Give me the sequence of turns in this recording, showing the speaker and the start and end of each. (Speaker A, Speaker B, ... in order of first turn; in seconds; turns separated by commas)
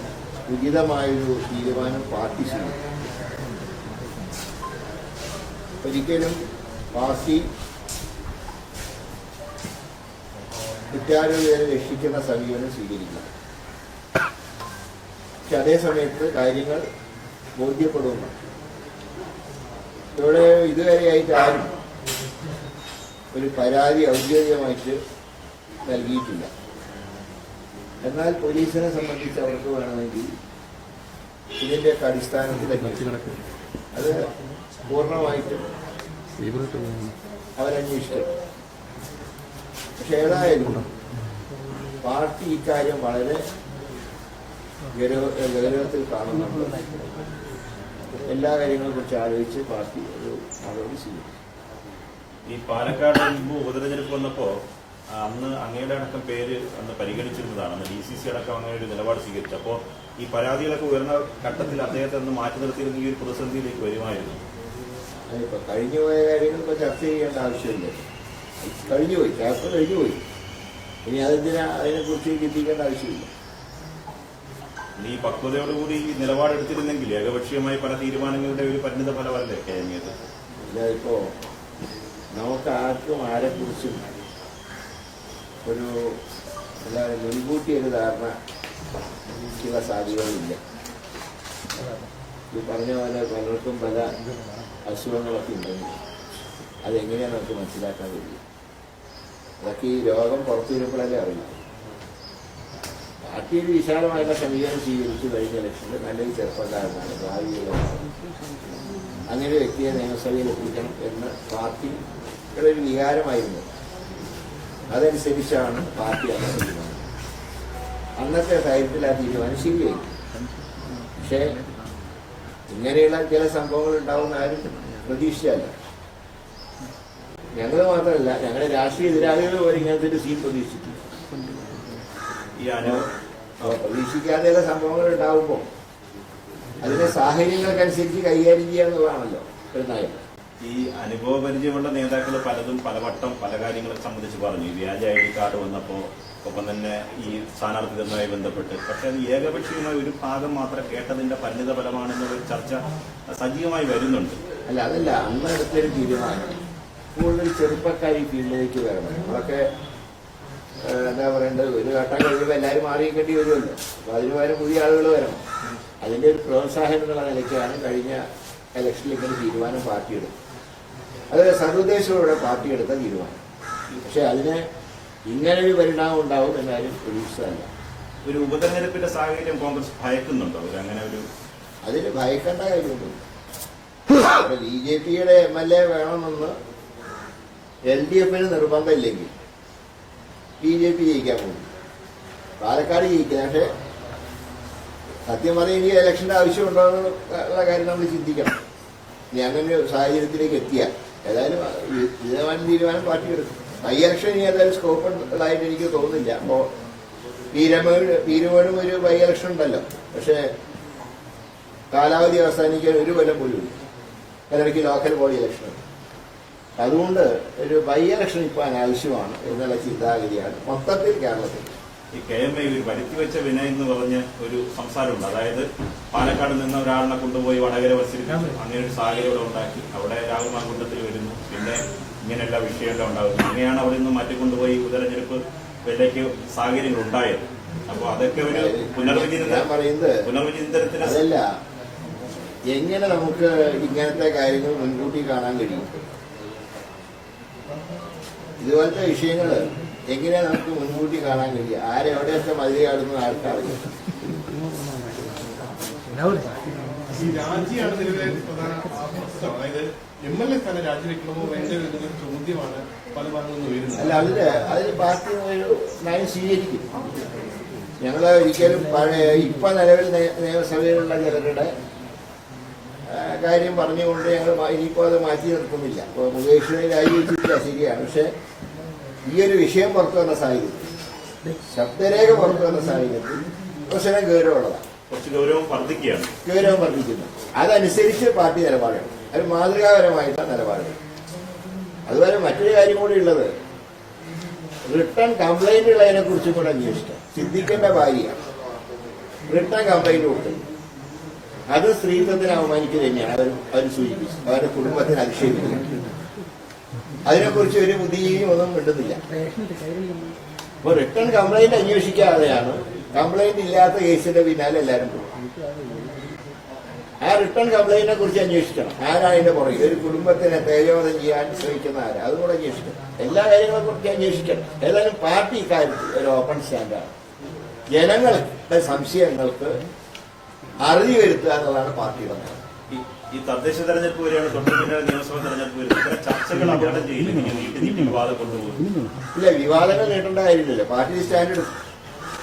Speaker A: 0.5-2.8, Speaker A: 5.8-6.4, Speaker A: 6.9-7.5, Speaker A: 10.9-13.3, Speaker A: 15.4-16.8, Speaker A: 17.6-18.4, Speaker A: 20.2-21.7, Speaker A: 23.3-25.0, Speaker A: 25.8-26.5, Speaker A: 28.0-30.3, Speaker A: 31.6-33.2, Speaker A: 33.9-34.3, Speaker A: 34.9-35.7, Speaker B: 36.4-37.1, Speaker A: 37.6-38.3, Speaker A: 40.0-40.9, Speaker A: 42.0-43.4, Speaker A: 45.0-46.9, Speaker A: 48.2-51.3, Speaker C: 52.5-54.5, Speaker C: 55.2-64.4, Speaker A: 65.3-68.0, Speaker A: 68.6-70.2, Speaker A: 71.0-73.3, Speaker C: 75.0-80.1, Speaker A: 80.7-81.3, Speaker A: 82.3-84.0, Speaker A: 85.6-86.2, Speaker A: 86.8-88.3, Speaker A: 89.5-90.6, Speaker A: 92.5-94.1, Speaker A: 94.8-95.9, Speaker A: 96.8-98.4, Speaker A: 99.6-101.5, Speaker A: 103.2-108.1, Speaker A: 109.2-112.0, Speaker A: 112.5-113.7, Speaker A: 114.9-117.0, Speaker A: 118.2-120.1, Speaker A: 121.2-121.6, Speaker A: 122.7-125.7, Speaker A: 127.6-131.0, Speaker C: 132.6-133.1, Speaker A: 133.6-135.6, Speaker A: 136.8-140.2, Speaker C: 140.6-154.4, Speaker A: 154.7-156.5, Speaker A: 157.1-159.7, Speaker A: 160.8-165.4, Speaker A: 166.0-170.3, Speaker A: 171.3-173.4, Speaker A: 174.0-174.6, Speaker A: 175.3-177.7, Speaker C: 178.2-181.2, Speaker A: 181.8-183.2, Speaker A: 184.2-186.5, Speaker A: 187.9-189.3, Speaker A: 190.6-191.7, Speaker A: 192.6-193.7, Speaker A: 195.3-198.6, Speaker A: 199.3-206.7, Speaker A: 207.5-210.5, Speaker A: 211.9-213.7, Speaker A: 214.5-215.8, Speaker A: 216.8-221.7, Speaker C: 222.1-239.7, Speaker A: 238.5-240.2, Speaker C: 240.2-241.2, Speaker A: 241.0-241.4, Speaker A: 242.7-245.9, Speaker A: 248.6-253.9, Speaker B: 257.1-264.2, Speaker A: 264.0-266.9, Speaker A: 268.0-271.7, Speaker A: 273.1-278.3, Speaker A: 279.3-280.9, Speaker A: 281.6-284.8, Speaker C: 285.1-286.3, Speaker A: 286.4-290.9, Speaker A: 292.1-293.5, Speaker A: 294.9-298.4, Speaker A: 299.5-300.6, Speaker A: 301.7-305.9, Speaker A: 307.2-309.2, Speaker A: 310.8-315.2, Speaker A: 317.2-327.1, Speaker A: 327.9-329.8, Speaker A: 330.8-332.6, Speaker C: 332.9-338.9, Speaker A: 339.3-341.7